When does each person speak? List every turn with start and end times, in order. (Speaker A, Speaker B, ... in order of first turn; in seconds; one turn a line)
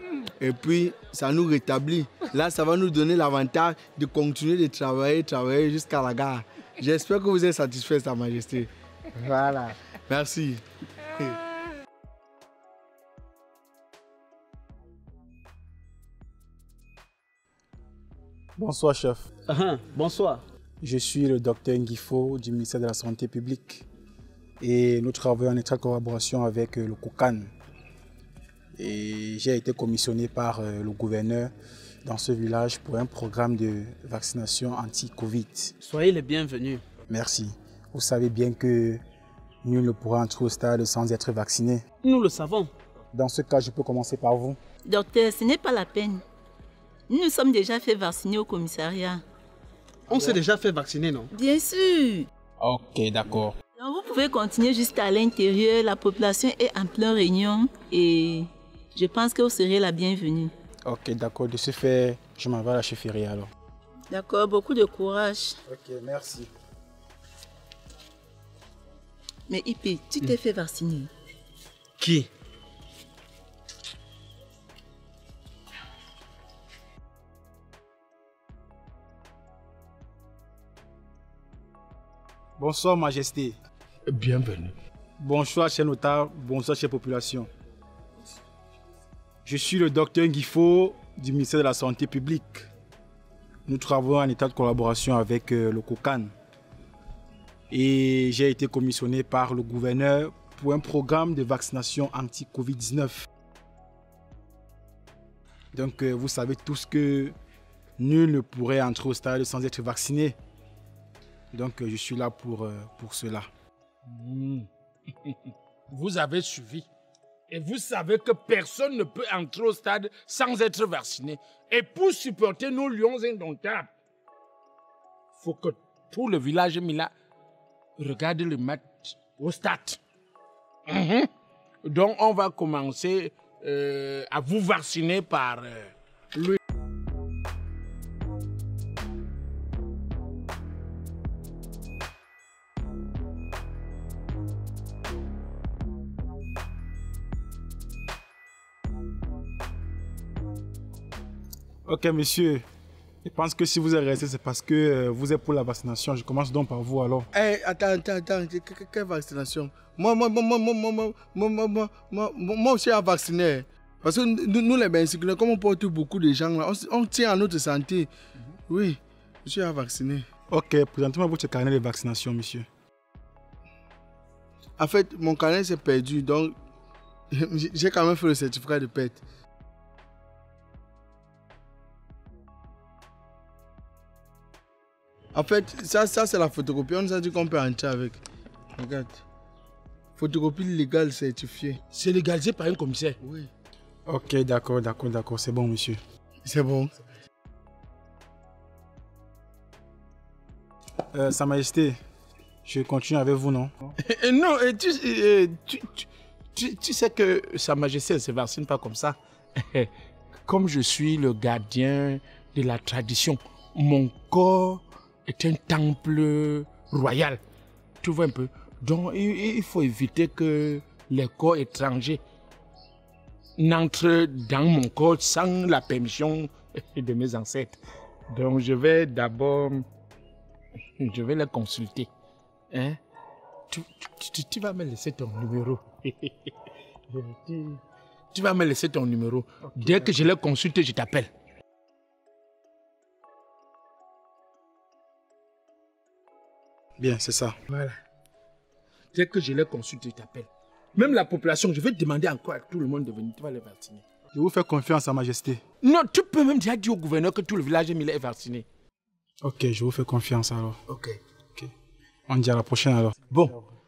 Speaker A: 0.4-11.4
Speaker B: 18.6-19.2
Speaker C: 19.5-20.4
Speaker B: 20.8-23.9
Speaker B: 24.6-27.5
Speaker B: 28.8-31.5
Speaker B: 32.0-35.7
Speaker C: 35.8-36.8
Speaker B: 37.1-39.0
Speaker B: 39.6-41.8
Speaker C: 42.0-42.7
Speaker B: 43.1-44.6
Speaker D: 44.9-46.2
Speaker D: 47.1-49.2
Speaker C: 50.1-51.3
Speaker D: 51.3-52.3
Speaker B: 52.6-53.6
Speaker D: 53.8-60.5
Speaker B: 60.9-63.5
Speaker D: 64.1-65.6
Speaker B: 65.7-66.5
Speaker D: 69.5-71.1
Speaker B: 82.6-83.6
Speaker E: 84.1-84.7
Speaker B: 85.2-87.5
Speaker B: 89.5-92.7
Speaker B: 93.7-96.3
Speaker B: 97.7-103.3
Speaker B: 105.7-107.4
Speaker B: 108.0-110.4
Speaker B: 111.5-113.5
Speaker E: 114.1-114.7
Speaker E: 115.9-116.9
Speaker E: 117.5-123.9
Speaker E: 125.3-127.1
Speaker E: 128.0-130.0
Speaker E: 130.9-131.3
Speaker E: 131.8-136.6
Speaker B: 151.9-152.6
Speaker B: 153.2-157.3
Speaker A: 157.3-168.1
Speaker A: 168.7-170.3
Speaker B: 170.5-172.7
Speaker A: 174.8-176.6
Speaker A: 177.3-179.2
Speaker A: 185.3-188.2
Speaker A: 188.8-189.2
Speaker A: 190.2-191.8
Speaker E: 191.9-193.2
Speaker A: 193.2-193.5
Speaker B: 194.1-196.0
Speaker A: 196.4-196.9
Speaker B: 201.1-202.0
Speaker B: 202.7-203.9
Speaker E: 204.1-209.2
Speaker E: 210.5-217.4
Speaker E: 218.0-222.2
Speaker E: 223.6-227.8
Speaker E: 228.3-229.9
Speaker E: 231.0-232.1
Speaker E: 232.7-233.0
Speaker E: 233.7-236.5
Speaker E: 237.1-237.8
Speaker E: 238.3-241.3
Speaker B: 247.0-247.6
Speaker E: 247.7-248.0
Speaker E: 249.1-254.1
Speaker B: 254.3-255.6
Speaker E: 255.8-258.7
Speaker B: 259.4-260.8
Speaker E: 260.9-261.2
Speaker B: 262.3-263.7